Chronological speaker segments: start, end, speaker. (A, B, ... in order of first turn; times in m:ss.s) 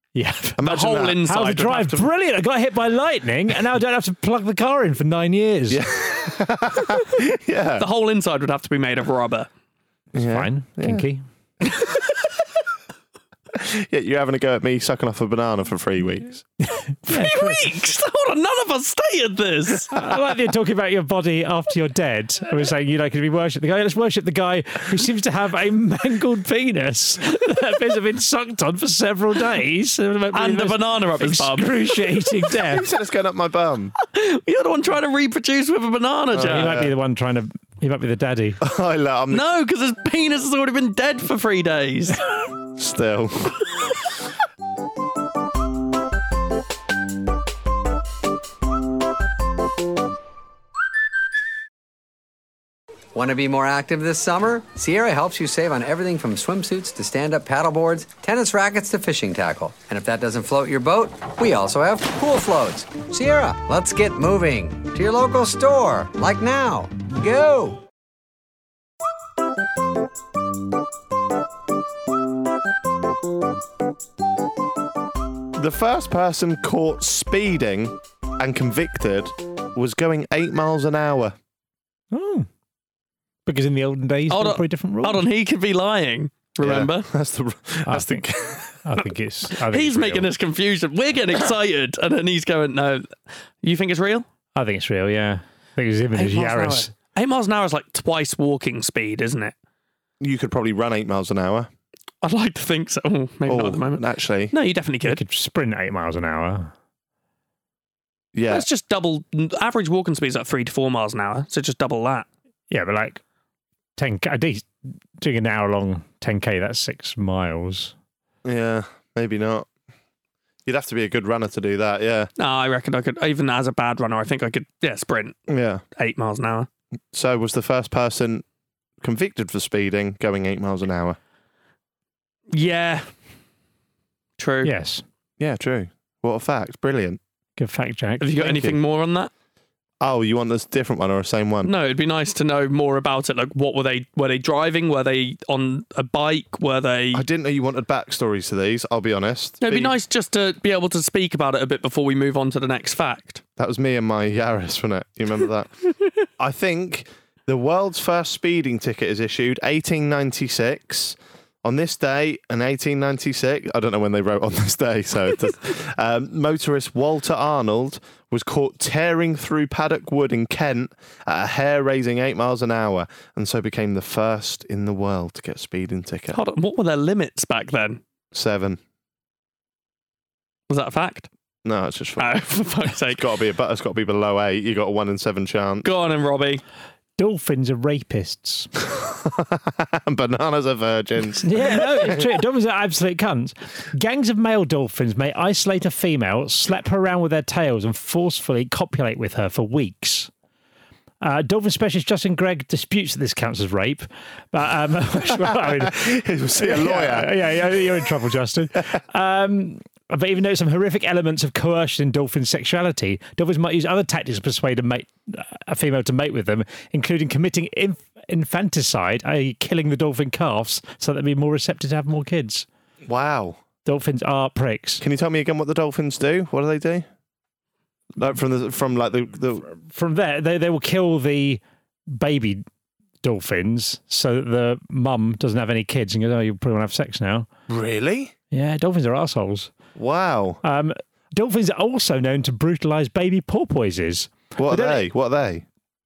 0:00.1-0:00.6 A
0:00.6-0:01.2 B
0:00.6-0:02.1 C
0:01.2-0:05.8 A
0:05.7-0:07.9 B
0:07.8-0:09.5 C
0:10.1-0:11.1 B
0:10.2-0:11.2 A
0:13.5-0:16.4 B
0:16.8-0:17.6 A
0:17.1-0:20.0 C
0:19.9-0:32.8 A
0:30.3-0:32.3 C
0:32.6-0:33.9 B
0:34.0-0:36.7 C
0:36.3-0:36.9 B
0:36.5-0:38.6 A
0:38.6-0:39.4 B
0:39.3-0:42.2 C
0:42.8-0:43.6 B
0:53.1-1:07.8 D
1:15.5-1:21.3 B
1:22.1-1:22.5 A
1:23.4-1:25.2 A
1:24.3-1:27.1 C
1:26.6-1:28.8 B
1:27.8-1:28.2 A
1:28.8-1:30.3 A
1:29.7-1:33.1 C
1:33.6-1:34.2 C
1:34.5-1:36.9 A
1:36.2-1:39.5 C
1:40.2-1:41.7 B
1:42.2-1:45.2 C
1:43.5-1:44.5 B
1:45.0-1:46.7 A
1:48.3-1:48.7 B
1:48.5-1:52.3 C
1:52.7-1:53.2 A
1:54.0-1:54.7 A
1:55.2-1:57.9 A
1:58.4-1:59.7 B
2:00.6-2:02.3 B
2:02.4-2:05.4 C
2:05.5-2:05.8 B
2:06.0-2:06.7 C
2:07.1-2:08.4 B
2:09.0-2:11.2 B
2:12.5-2:13.1 C
2:14.4-2:14.7 C
2:14.6-2:15.0 A
2:15.4-2:17.2 B
2:17.6-2:18.5 A
2:18.2-2:19.3 C
2:18.4-2:18.8 B
2:20.0-2:21.7 B
2:21.6-2:27.2 C
2:27.1-2:30.0 B
2:29.6-2:33.4 C
2:33.6-2:35.7 B
2:36.4-2:56.4 B
2:56.3-2:58.0 C
2:58.3-2:58.8 B
3:00.7-3:01.3 C
3:01.6-3:02.4 B
3:02.2-3:03.2 C
3:03.0-3:05.9 B
3:05.8-3:06.6 C
3:07.2-3:08.7 A
3:08.8-3:12.3 B
3:11.4-3:20.3 A
3:21.2-3:42.7 A
3:25.3-3:27.5 B
3:43.0-3:43.6 B
3:43.8-3:45.0 A
3:45.0-3:47.0 B
3:48.2-3:49.7 B
3:49.7-3:52.6 A
3:53.2-3:57.5 A
3:57.7-3:58.3 B
3:58.5-3:59.7 A
4:00.0-4:00.6 B
4:00.6-4:05.1 A
4:04.6-4:05.6 B